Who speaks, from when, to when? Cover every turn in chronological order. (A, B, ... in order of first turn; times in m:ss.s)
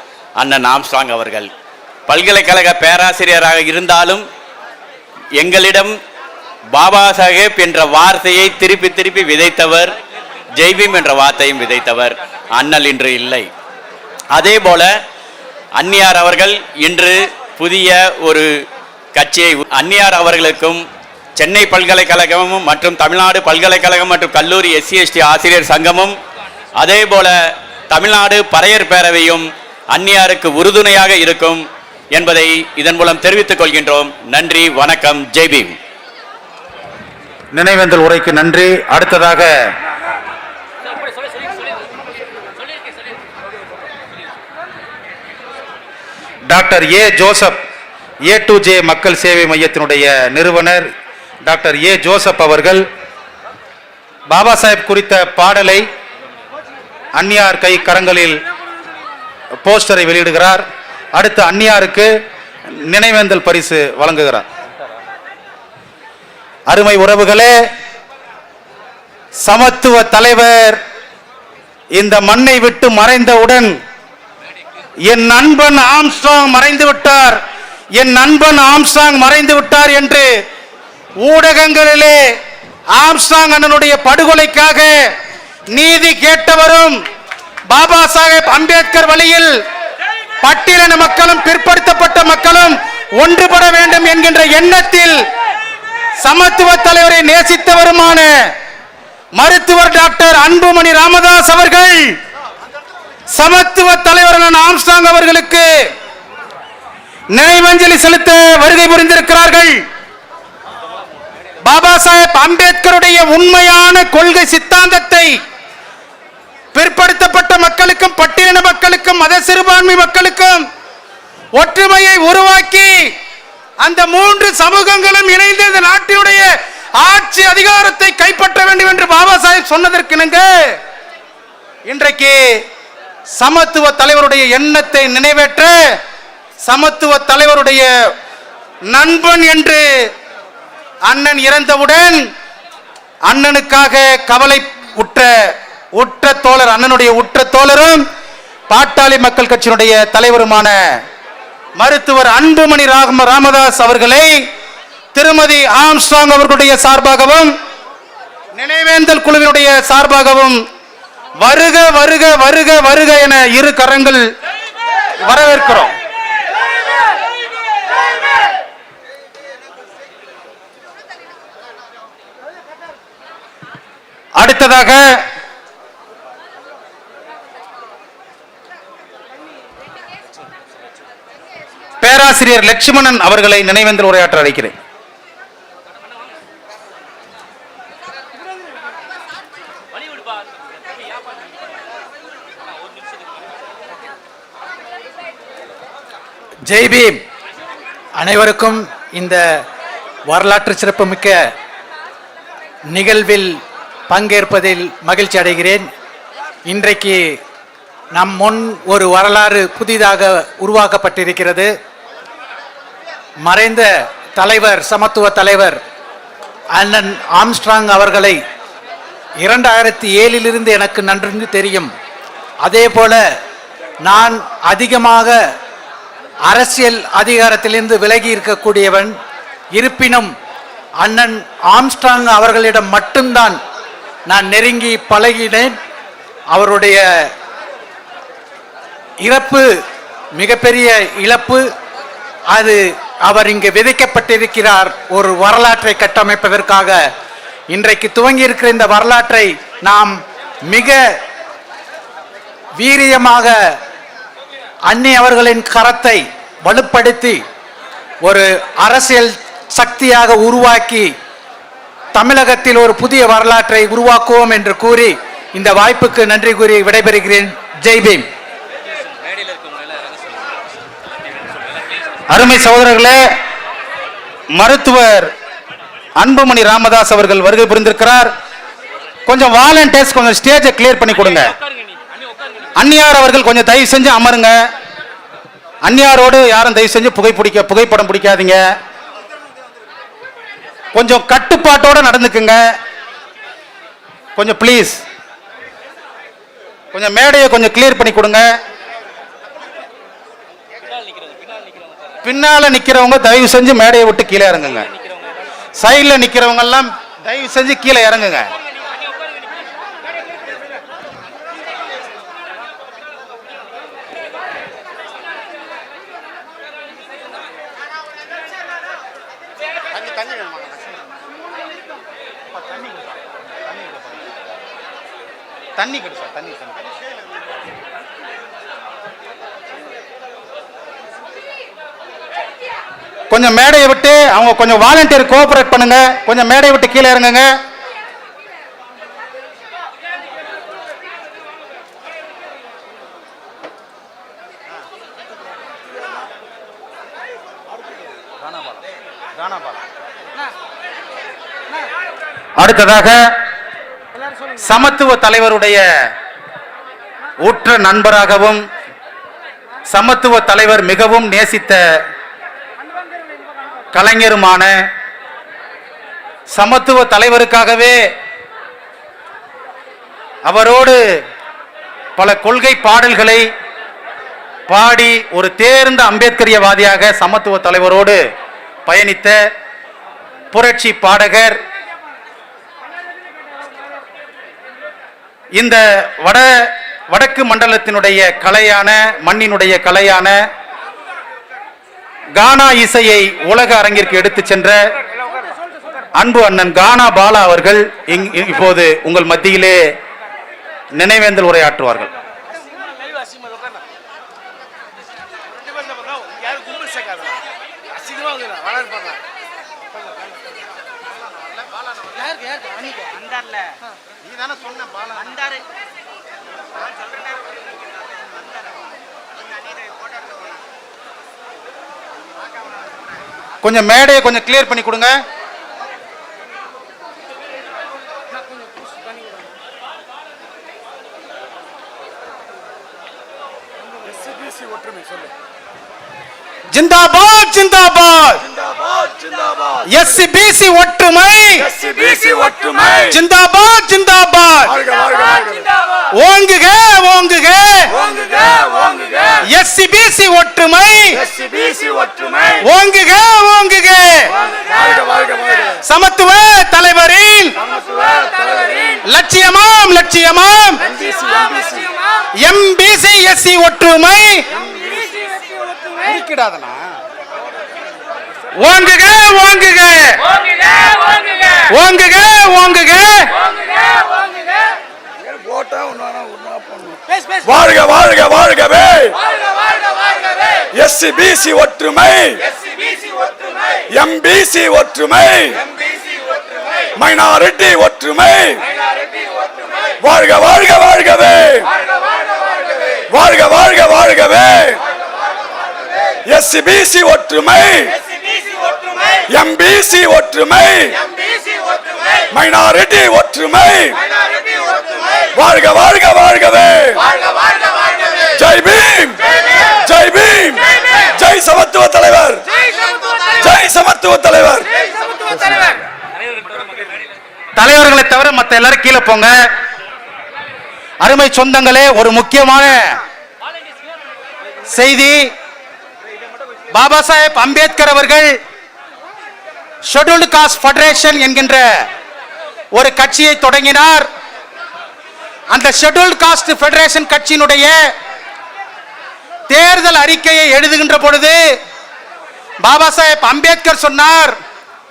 0:00.4-0:01.5 A
0:02.1-0:04.2 A
0:05.4-0:06.0 A
0:06.7-0:09.9 A
0:10.6-0:13.5 A
0:14.3-0:14.9 A
0:15.8-0:18.5 A
0:19.1-0:20.8 A
0:21.4-0:26.2 A
0:26.8-0:27.3 A
0:27.9-0:35.8 A
0:37.5-0:39.7 B
0:46.5-0:47.6 B
0:48.2-0:50.9 B
0:51.4-0:52.8 B
0:54.3-0:55.8 B
0:57.2-0:58.4 B
0:59.6-1:02.1 B
1:02.7-1:04.4 B
1:06.7-1:07.6 B
1:09.4-1:10.8 B
1:11.9-1:13.8 B
1:15.1-1:17.4 B
1:18.0-1:20.3 B
1:21.2-1:22.2 B
1:22.9-1:25.0 B
1:25.7-1:27.0 B
1:27.7-1:29.5 B
1:30.4-1:35.2 B
1:36.2-1:38.5 B
1:39.4-1:42.2 B
1:43.3-1:45.8 B
1:47.3-1:49.8 B
1:51.6-1:55.4 B
1:56.7-2:00.7 B
2:01.6-2:03.1 B
2:03.8-2:10.8 B
2:11.9-2:12.6 B
2:13.4-2:16.0 B
2:16.7-2:17.9 B
2:18.9-2:20.1 B
2:21.1-2:22.3 B
2:23.3-2:28.0 B
2:28.7-2:30.8 B
2:31.8-2:34.4 B
2:35.1-2:37.5 B
2:38.6-2:40.6 B
2:41.4-2:44.2 B
2:45.2-2:45.9 B
2:54.4-2:55.2 B
3:02.0-3:04.7 B
3:16.7-3:17.2 C
3:18.2-3:19.6 C
3:20.3-3:21.5 C
3:22.9-3:25.9 C
3:26.7-3:27.4 C
3:28.1-3:31.7 C
3:33.4-3:35.8 C
3:36.8-3:38.4 C
3:39.4-3:41.9 C
3:42.6-3:43.2 C
3:44.0-3:45.5 C
3:46.5-3:49.2 C
3:49.7-3:50.3 C
3:51.0-3:53.6 C
3:54.3-3:55.8 C
3:56.5-3:57.3 C
3:59.2-3:59.8 C
4:00.4-4:01.7 C
4:02.5-4:07.1 C
4:07.7-4:11.2 C
4:12.8-4:13.8 C
4:14.9-4:17.4 C
4:18.2-4:21.1 C
4:22.1-4:28.3 C
4:32.3-4:33.2 B
4:34.5-4:35.3 B
4:36.2-4:38.3 B
4:39.3-4:41.6 B
4:42.8-4:44.6 B
4:45.8-4:48.6 B
4:50.9-4:52.6 B
4:54.4-4:55.0 B
4:56.9-4:58.5 B
5:02.2-5:04.9 B
5:05.8-5:08.5 B
5:20.0-5:20.8 B
5:25.8-5:26.7 B
5:33.3-5:37.5 B
5:52.6-5:53.3 B
5:54.6-5:55.8 B
5:57.4-5:58.6 B
5:59.9-6:01.8 B
6:03.9-6:04.9 B
6:06.5-6:08.0 B
6:10.4-6:11.0 B
6:12.2-6:13.5 B
6:14.7-6:18.2 B
6:18.8-6:19.4 B
6:20.5-6:21.6 B
6:25.6-6:30.4 B
6:32.4-6:34.8 B
6:36.2-6:39.8 B
6:41.0-6:42.1 B
7:03.6-7:05.2 B
7:14.7-7:15.1 D
7:16.7-7:18.4 B
7:18.8-7:19.8 D
7:19.9-7:21.6 B
7:21.6-7:23.1 D
7:23.1-7:24.8 B
7:24.8-7:25.7 D
7:26.1-7:27.9 B
7:27.9-7:29.4 D
7:29.5-7:31.2 B
7:31.2-7:32.6 D
7:32.6-7:34.3 B
7:34.7-7:35.7 D
7:35.8-7:37.6 B
7:37.8-7:38.9 D
7:39.1-7:40.8 B
7:40.9-7:41.9 D
7:42.4-7:44.5 B
7:46.0-7:46.8 B
7:48.6-7:50.2 B
7:51.5-7:53.3 B
7:55.2-7:59.2 D
8:00.7-8:02.4 D
8:03.9-8:05.6 D
8:07.0-8:08.6 D
8:10.0-8:11.7 D
8:13.1-8:14.8 D
8:16.3-8:18.0 D
8:19.3-8:21.0 D
8:22.3-8:24.0 D
8:25.3-8:27.1 D
8:28.2-8:32.4 D
8:33.3-8:34.7 D
8:35.3-8:35.7 D
8:37.6-8:39.3 B
8:41.0-8:43.0 B
8:44.7-8:45.3 B
8:46.7-8:48.4 B
8:49.9-8:51.8 B
8:52.7-8:54.1 B
8:55.5-8:57.9 B
8:59.5-9:01.4 B
9:02.6-9:04.4 B